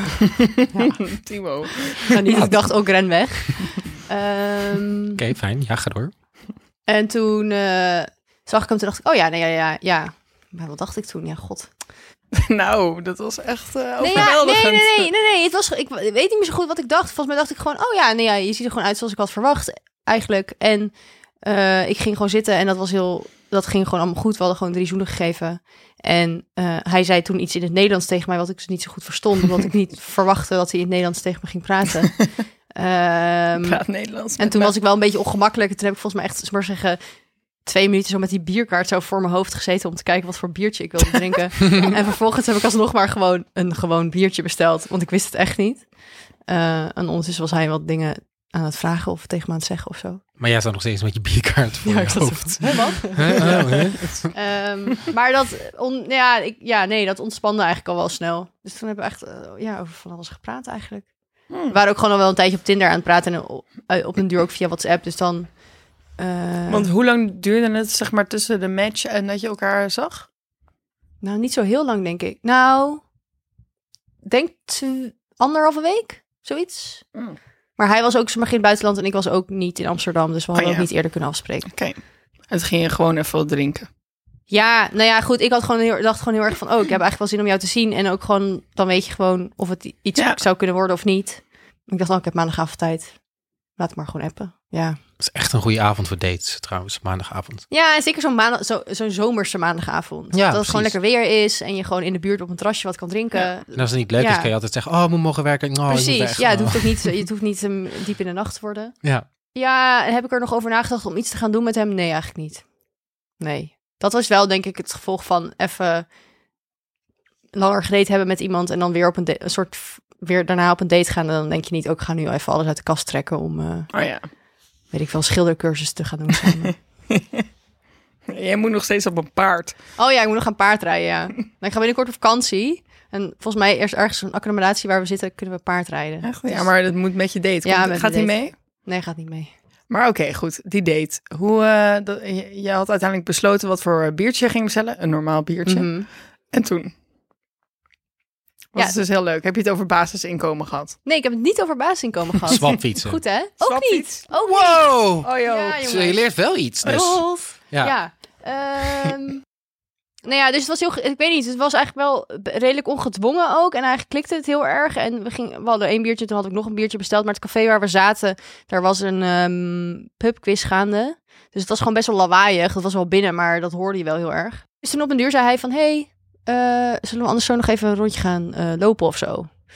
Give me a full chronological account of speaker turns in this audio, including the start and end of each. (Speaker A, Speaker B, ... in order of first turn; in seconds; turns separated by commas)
Speaker A: 0.4-2.1, Speaker B: 0.7-1.0, Speaker B: 2.0-5.2, Speaker C: 5.2-6.1, Speaker B: 6.9-11.7, Speaker A: 12.3-15.1, Speaker B: 14.0-20.9, Speaker B: 21.4-32.1, Speaker B: 32.7-33.8, Speaker A: 33.6-34.7, Speaker B: 34.4-37.0, Speaker B: 37.6-45.9, Speaker B: 46.5-50.2, Speaker C: 50.4-54.3, Speaker B: 51.8-61.1, Speaker A: 53.4-53.8, Speaker A: 61.5-61.8, Speaker B: 61.7-65.5, Speaker B: 66.2-66.9, Speaker A: 66.7-70.3, Speaker B: 71.2-73.0, Speaker B: 74.2-77.0, Speaker B: 77.8-81.7, Speaker A: 80.5-80.9, Speaker A: 81.7-82.0, Speaker A: 82.5-83.9, Speaker B: 84.5-93.1, Speaker B: 93.8-95.0, Speaker C: 95.2-97.6, Speaker B: 97.7-104.5, Speaker C: 100.3-101.0, Speaker C: 103.7-107.2, Speaker B: 105.9-108.9, Speaker B: 109.5-112.6, Speaker B: 113.4-116.1, Speaker B: 117.5-123.9, Speaker A: 123.9-124.2, Speaker B: 124.9-126.8, Speaker A: 127.1-127.4, Speaker A: 128.3-129.8, Speaker B: 130.0-136.7, Speaker A: 136.2-138.5, Speaker B: 137.6-139.5, Speaker A: 139.9-145.9, Speaker B: 145.7-146.1, Speaker A: 146.5-146.9, Speaker A: 148.7-151.0, Speaker B: 151.0-156.3, Speaker C: 152.5-153.2, Speaker A: 153.6-154.2, Speaker C: 154.4-157.9, Speaker A: 155.2-156.0, Speaker B: 156.8-159.4, Speaker A: 156.8-157.1, Speaker B: 160.2-179.5